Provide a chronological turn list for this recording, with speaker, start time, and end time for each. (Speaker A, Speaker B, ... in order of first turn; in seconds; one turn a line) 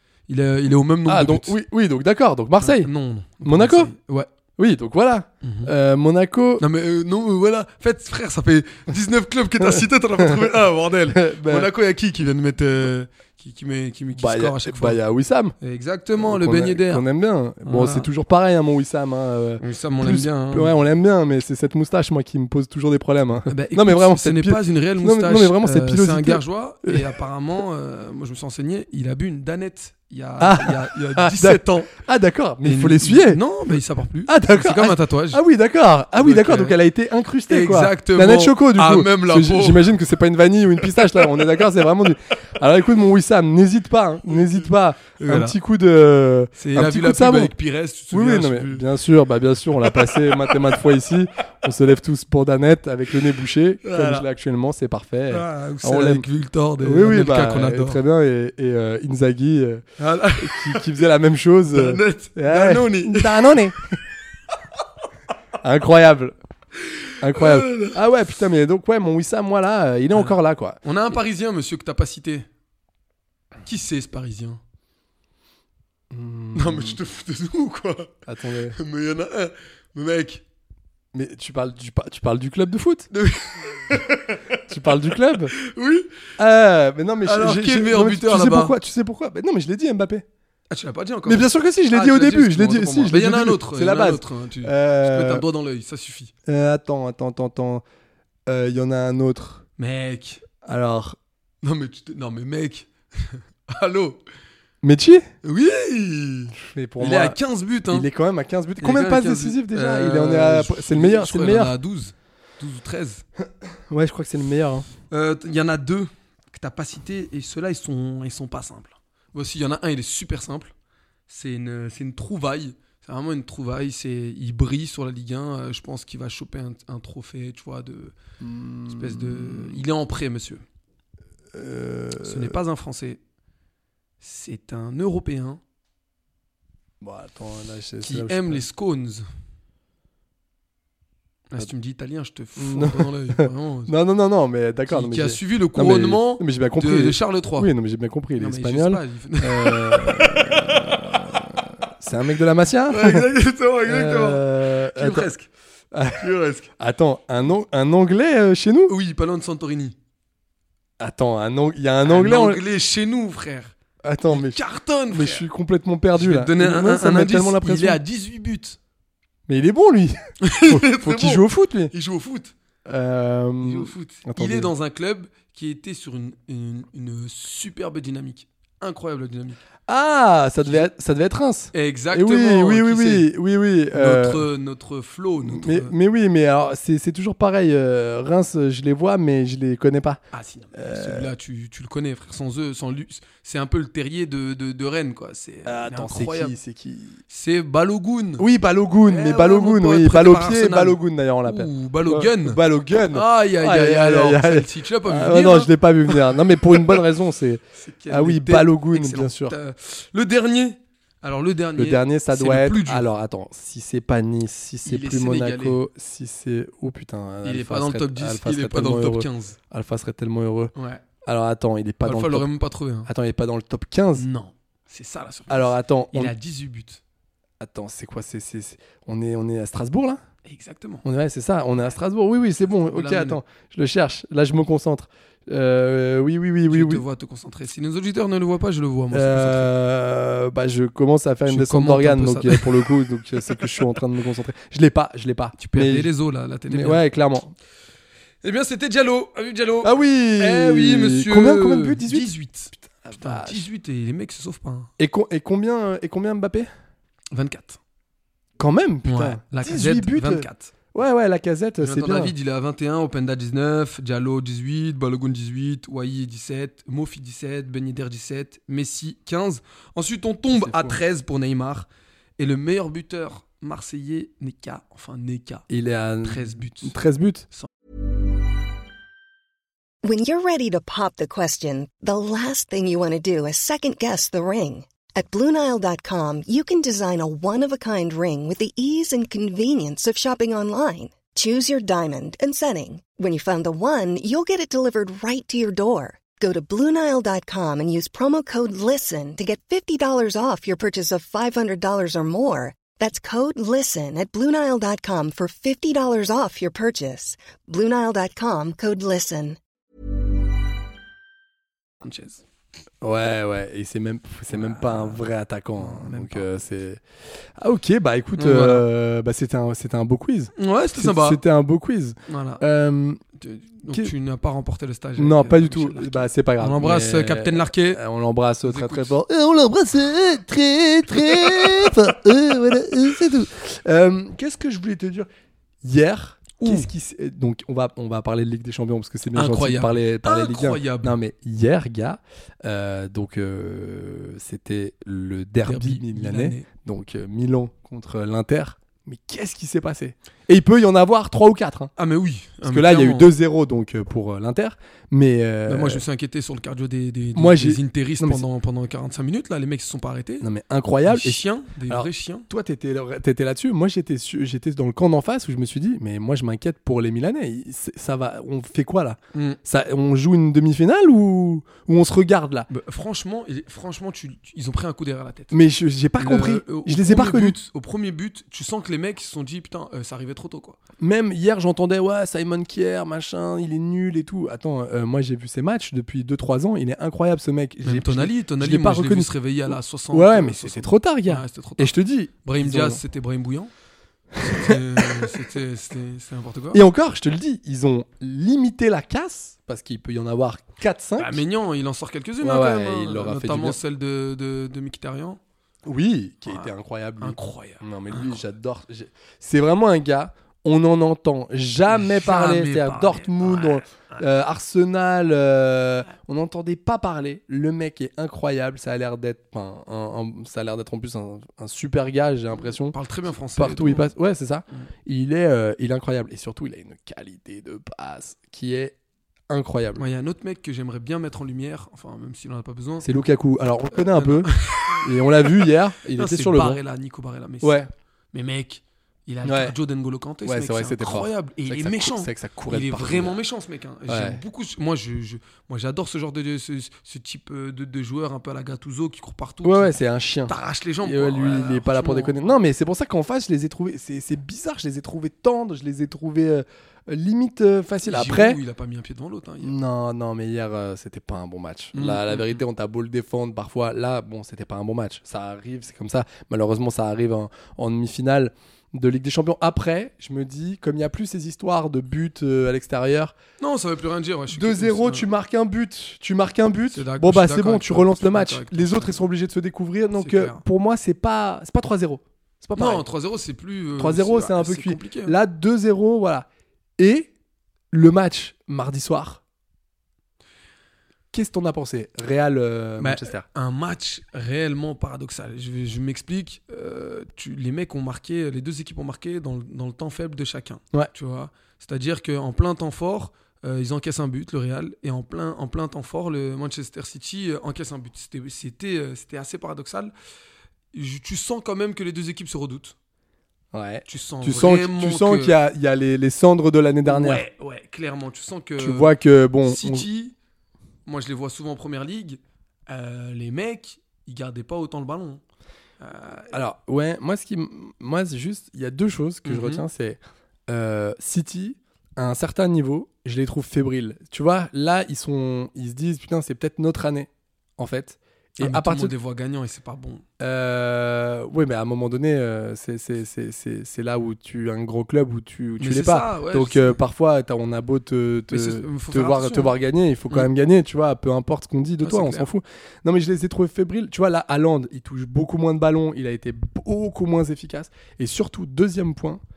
Speaker A: 0.3-1.6
Speaker B: 1.1-2.9
Speaker A: 2.6-4.3
Speaker B: 3.4-3.9
Speaker B: 4.6-6.6
Speaker A: 5.4-5.7
Speaker A: 6.6-15.0
Speaker B: 9.6-10.4
Speaker B: 11.1-11.7
Speaker B: 14.1-15.6
Speaker A: 15.6-17.1
Speaker B: 16.2-27.1
Speaker A: 17.6-18.1
Speaker A: 19.6-20.7
Speaker A: 23.5-31.9
Speaker B: 30.4-33.4
Speaker A: 32.6-35.4
Speaker B: 34.3-47.5
Speaker A: 36.2-36.8
Speaker A: 37.5-39.9
Speaker A: 44.3-45.6
Speaker A: 46.6-48.9
Speaker B: 48.1-56.3
Speaker A: 49.9-50.6
Speaker A: 53.8-54.3
Speaker A: 55.3-58.0
Speaker B: 56.8-59.8
Speaker A: 60.0-60.9
Speaker B: 60.4-63.9
Speaker A: 61.7-63.6
Speaker B: 65.6-66.4
Speaker B: 67.2-70.8
Speaker A: 67.3-68.0
Speaker A: 70.1-72.5
Speaker A: 73.7-74.6
Speaker B: 76.1-77.0
Speaker A: 76.5-78.1
Speaker B: 78.3-78.8
Speaker A: 78.8-80.4
Speaker B: 81.1-83.1
Speaker A: 83.1-84.6
Speaker B: 84.7-85.5
Speaker A: 85.1-86.1
Speaker B: 86.4-90.2
Speaker A: 87.2-88.8
Speaker A: 90.7-96.3
Speaker B: 91.3-95.4
Speaker B: 96.5-97.8
Speaker B: 98.5-99.7
Speaker A: 99.8-100.4
Speaker B: 100.6-101.2
Speaker A: 101.6-104.2
Speaker B: 104.8-105.3
Speaker A: 105.4-108.1
Speaker B: 106.5-111.8
Speaker A: 108.8-113.2
Speaker B: 113.9-114.9
Speaker A: 115.1-120.7
Speaker A: 121.3-128.2
Speaker B: 128.4-129.8
Speaker A: 128.9-130.6
Speaker B: 131.5-132.6
Speaker A: 132.2-133.2
Speaker A: 134.2-135.6
Speaker B: 137.0-138.7
Speaker A: 138.0-139.3
Speaker A: 141.5-143.9
Speaker B: 142.6-153.3
Speaker A: 144.9-147.7
Speaker A: 148.4-151.0
Speaker A: 152.9-155.5
Speaker B: 153.9-155.3
Speaker B: 155.9-158.9
Speaker A: 156.2-156.7
Speaker A: 158.9-160.0
Speaker B: 161.0-162.6
Speaker A: 162.0-163.7
Speaker B: 164.0-168.0
Speaker A: 164.3-165.5
Speaker A: 166.2-168.8
Speaker B: 169.5-171.9
Speaker A: 170.4-172.5
Speaker B: 172.9-174.7
Speaker A: 173.6-179.6
Speaker B: 179.9-184.5
Speaker A: 180.6-180.9
Speaker A: 181.7-183.3
Speaker A: 183.9-185.9
Speaker B: 185.4-190.2
Speaker A: 190.3-196.6
Speaker B: 190.7-191.3
Speaker B: 195.7-197.2
Speaker A: 197.3-198.5
Speaker B: 198.4-209.6
Speaker A: 199.1-202.6
Speaker A: 203.1-206.3
Speaker A: 207.8-213.1
Speaker B: 211.8-220.7
Speaker A: 214.8-215.8
Speaker A: 217.4-219.6
Speaker A: 220.8-221.0
Speaker B: 221.2-222.5
Speaker A: 222.0-223.1
Speaker B: 223.0-224.3
Speaker A: 224.2-227.0
Speaker B: 225.5-226.3
Speaker B: 227.6-230.2
Speaker A: 230.5-231.1
Speaker B: 231.0-237.1
Speaker A: 232.9-233.4
Speaker A: 236.7-239.7
Speaker B: 239.1-246.1
Speaker A: 241.4-243.8
Speaker A: 245.6-247.0
Speaker B: 246.7-247.5
Speaker A: 248.4-254.9
Speaker B: 249.8-253.7
Speaker B: 255.0-256.7
Speaker A: 257.3-257.8
Speaker B: 258.6-262.3
Speaker A: 259.1-260.7
Speaker A: 261.8-275.7
Speaker B: 270.5-271.0
Speaker B: 275.7-277.5
Speaker A: 276.2-277.0
Speaker C: 280.0-309.6
Speaker A: 312.0-312.4
Speaker B: 313.0-317.0
Speaker A: 314.5-315.2
Speaker A: 315.8-316.5
Speaker B: 317.6-323.2
Speaker A: 318.4-318.9
Speaker A: 320.6-321.4
Speaker A: 322.3-322.6
Speaker A: 323.4-328.0
Speaker B: 323.9-324.1
Speaker B: 325.2-335.3
Speaker A: 328.6-329.1
Speaker A: 331.2-331.9
Speaker B: 335.8-351.9
Speaker A: 336.6-336.9
Speaker A: 339.4-341.2
Speaker A: 345.6-346.7
Speaker A: 352.0-353.3
Speaker B: 352.6-356.0
Speaker A: 355.7-360.5
Speaker B: 357.3-358.4
Speaker B: 360.4-372.7
Speaker A: 361.1-362.5
Speaker A: 372.7-375.6
Speaker B: 375.5-377.6
Speaker A: 376.2-380.8
Speaker B: 381.0-393.0
Speaker A: 387.8-393.7
Speaker B: 394.4-395.4
Speaker A: 394.4-396.8
Speaker B: 396.7-401.4
Speaker A: 401.2-405.4
Speaker B: 402.4-403.8
Speaker B: 405.9-428.9
Speaker A: 406.5-408.4
Speaker A: 411.9-414.2
Speaker A: 422.6-424.1
Speaker B: 429.5-430.1
Speaker A: 430.0-433.1
Speaker B: 433.0-436.8
Speaker A: 434.1-437.8
Speaker B: 437.6-437.9
Speaker A: 438.3-452.6
Speaker B: 439.4-439.8
Speaker B: 440.4-443.4
Speaker B: 444.1-444.4
Speaker B: 449.6-458.6
Speaker A: 458.0-459.8
Speaker B: 459.6-473.4
Speaker A: 461.9-462.6
Speaker A: 473.6-475.3
Speaker B: 474.5-483.1
Speaker A: 476.9-479.3
Speaker A: 480.1-480.6
Speaker A: 482.8-485.4
Speaker B: 484.0-486.5
Speaker B: 487.0-487.3
Speaker B: 487.9-489.4
Speaker B: 491.3-493.4
Speaker A: 493.0-510.1
Speaker A: 510.9-513.0
Speaker B: 513.7-517.5
Speaker A: 514.1-515.6
Speaker A: 517.0-519.1
Speaker B: 518.8-520.1
Speaker A: 519.6-520.3
Speaker A: 521.1-525.4
Speaker A: 526.0-526.5
Speaker B: 526.5-539.1
Speaker A: 529.5-529.9
Speaker A: 538.6-540.2
Speaker B: 540.4-559.4
Speaker A: 545.8-547.0
Speaker A: 548.5-549.7
Speaker A: 552.0-552.5